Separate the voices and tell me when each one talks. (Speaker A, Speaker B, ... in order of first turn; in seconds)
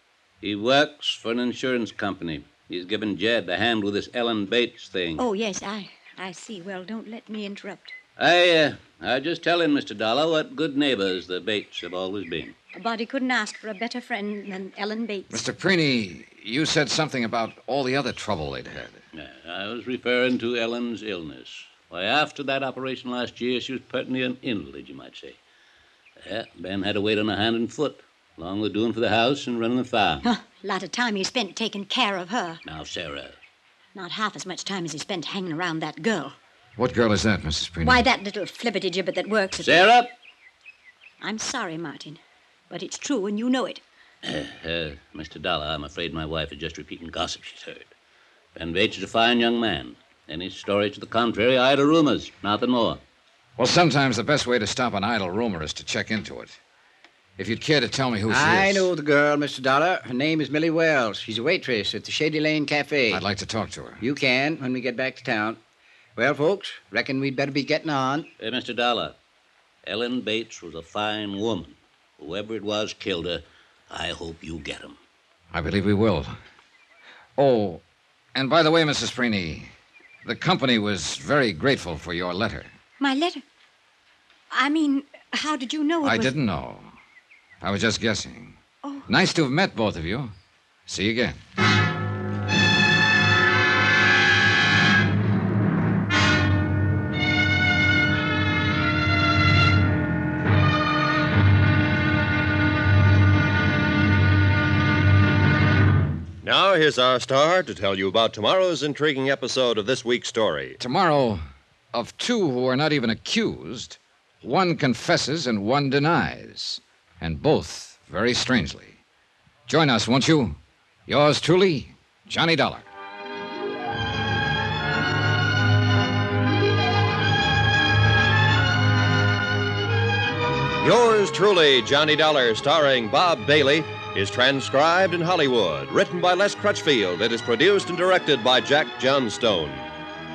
Speaker A: 0.4-5.2, 8.2-12.6, 19.1-25.4, 26.2-30.3, 32.6-33.4, 39.6-40.1, 44.2-47.9, 48.5-53.0, 68.4-69.1, 69.8-75.0
Speaker B: 5.2-7.9, 12.7-15.3, 30.2-32.6, 33.9-36.3, 37.8-39.9, 41.2-43.8, 83.0-83.4, 84.5-86.3, 88.8-89.1
Speaker C: 15.3-19.0, 36.8-38.0, 53.6-56.6, 57.4-58.9, 63.1-64.0, 75.5-76.3, 77.4-77.8, 78.3-79.7, 80.2-82.7, 86.0-86.9, 87.6-88.6, 89.1-90.3, 90.9-91.4, 110.8-111.4, 111.9-119.0, 119.7-122.9
Speaker D: 58.3-63.2, 64.0-65.6, 66.2-68.3
Speaker E: 106.4-110.8, 130.8-139.9